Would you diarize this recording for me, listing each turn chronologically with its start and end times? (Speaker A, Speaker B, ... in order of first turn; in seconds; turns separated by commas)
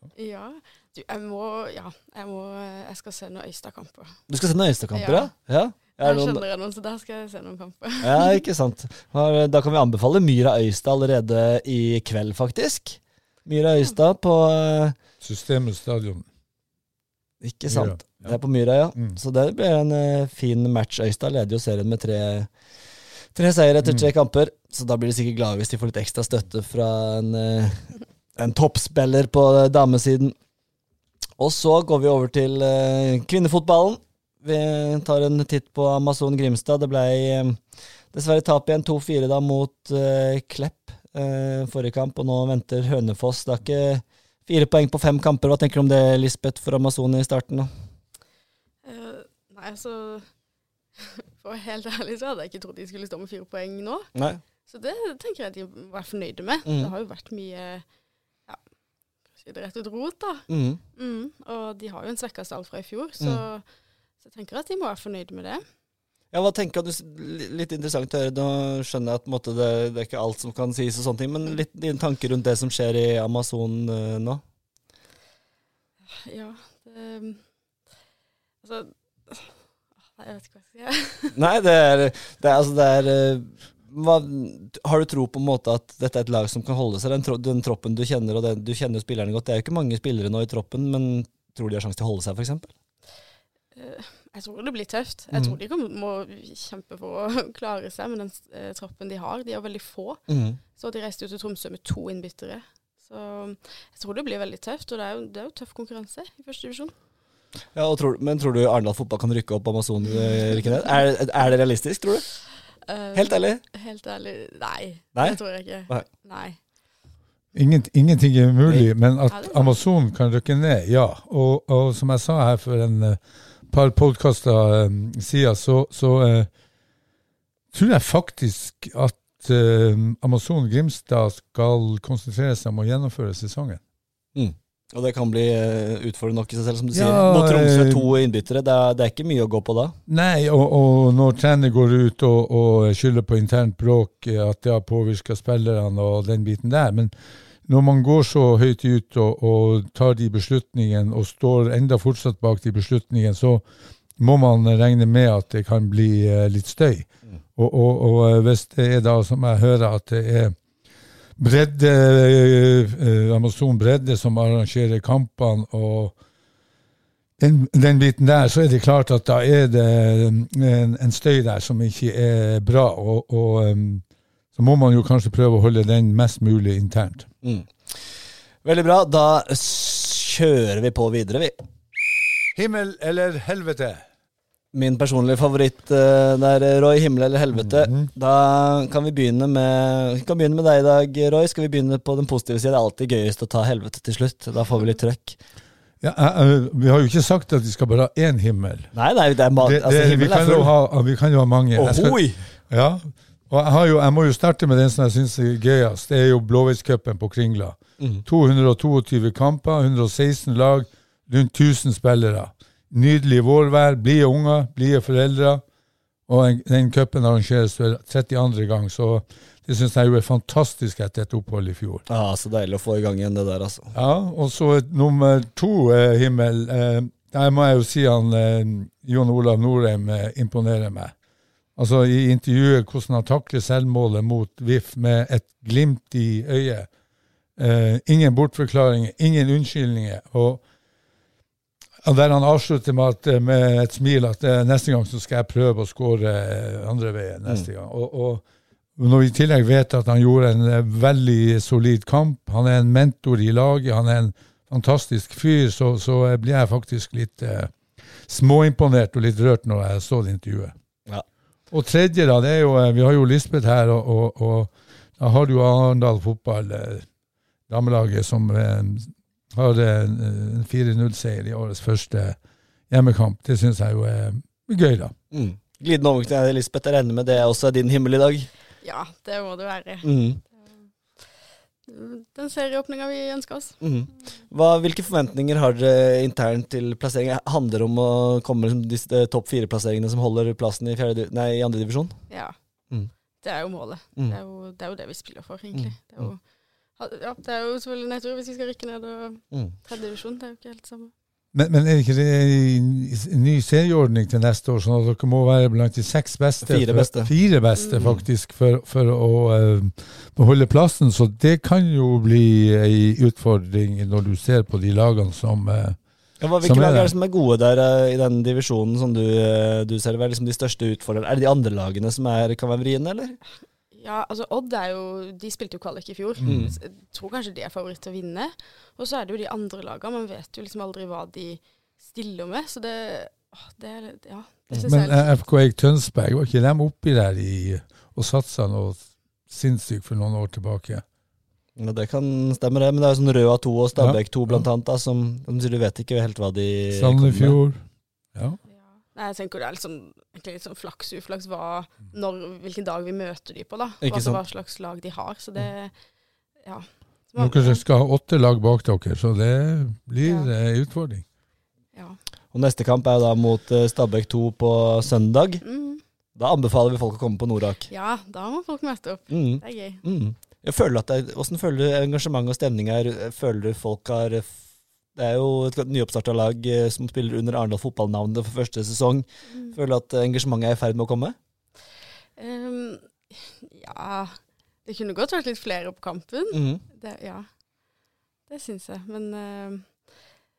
Speaker A: 0.1-4.1, Speaker B: 4.3-6.4, Speaker A: 4.9-5.3, Speaker A: 6.0-8.4, Speaker B: 8.0-14.9, Speaker C: 15.2-16.3, Speaker B: 17.4-22.5, Speaker C: 17.7-18.3, Speaker B: 23.3-30.3, Speaker B: 31.4-37.6, Speaker B: 38.1-47.7, Speaker A: 48.8-50.3, Speaker A: 51.0-54.1, Speaker B: 54.1-54.4, Speaker A: 54.6-57.8, Speaker B: 56.6-56.9, Speaker A: 59.4-63.6, Speaker B: 60.5-60.8, Speaker A: 64.2-65.6, Speaker B: 66.3-74.4, Speaker A: 76.1-77.4, Speaker A: 78.6-79.5, Speaker A: 80.1-81.3, Speaker B: 81.3-92.7, Speaker A: 93.7-100.2, Speaker B: 100.3-100.6, Speaker A: 100.7-106.9, Speaker B: 107.7-112.2, Speaker A: 112.8-116.6, Speaker B: 113.1-113.6, Speaker B: 115.1-116.0, Speaker C: 117.5-126.5, Speaker A: 119.3-119.8, Speaker C: 127.7-133.8, Speaker B: 134.3-139.9, Speaker C: 136.9-138.1, Speaker C: 140.1-147.1, Speaker C: 147.7-153.6, Speaker C: 154.2-160.5, Speaker C: 161.4-166.1, Speaker C: 167.4-174.0, Speaker C: 174.5-177.3, Speaker B: 177.4-177.7, Speaker B: 178.6-181.6, Speaker C: 182.5-184.0, Speaker B: 184.7-195.4, Speaker C: 187.5-188.1, Speaker C: 196.0-198.9, Speaker B: 198.9-200.7, Speaker C: 199.6-202.2, Speaker B: 201.8-202.4, Speaker C: 202.7-215.6, Speaker C: 216.3-222.0, Speaker B: 222.1-223.9, Speaker C: 223.9-231.1, Speaker C: 231.8-236.9, Speaker C: 237.6-240.6, Speaker C: 242.0-248.4, Speaker C: 248.9-257.7, Speaker C: 258.2-260.7, Speaker C: 261.7-267.1, Speaker C: 267.7-272.4, Speaker C: 272.9-275.1, Speaker B: 275.3-278.5, Speaker A: 278.8-280.1, Speaker B: 280.0-280.4, Speaker A: 281.9-283.7, Speaker B: 283.8-292.2, Speaker A: 292.3-292.5, Speaker A: 293.4-296.4, Speaker A: 297.0-301.1, Speaker C: 301.5-316.0, Speaker B: 306.6-307.3, Speaker A: 307.8-308.1, Speaker B: 316.4-323.4, Speaker C: 316.6-317.1, Speaker A: 323.9-335.4, Speaker C: 326.4-326.7, Speaker B: 326.4-326.7, Speaker C: 334.8-341.0, Speaker B: 341.8-347.6, Speaker C: 344.0-344.6, Speaker C: 346.9-347.8, Speaker A: 349.1-355.9, Speaker B: 354.0-354.4, Speaker A: 356.6-357.8, Speaker C: 357.4-361.2, Speaker A: 360.2-360.5, Speaker B: 362.5-365.6, Speaker A: 365.6-366.0, Speaker B: 366.4-367.9, Speaker A: 367.9-370.0, Speaker B: 369.3-374.6, Speaker B: 375.1-381.4, Speaker A: 379.5-379.8, Speaker A: 382.4-387.5, Speaker B: 386.5-386.8, Speaker A: 388.5-389.9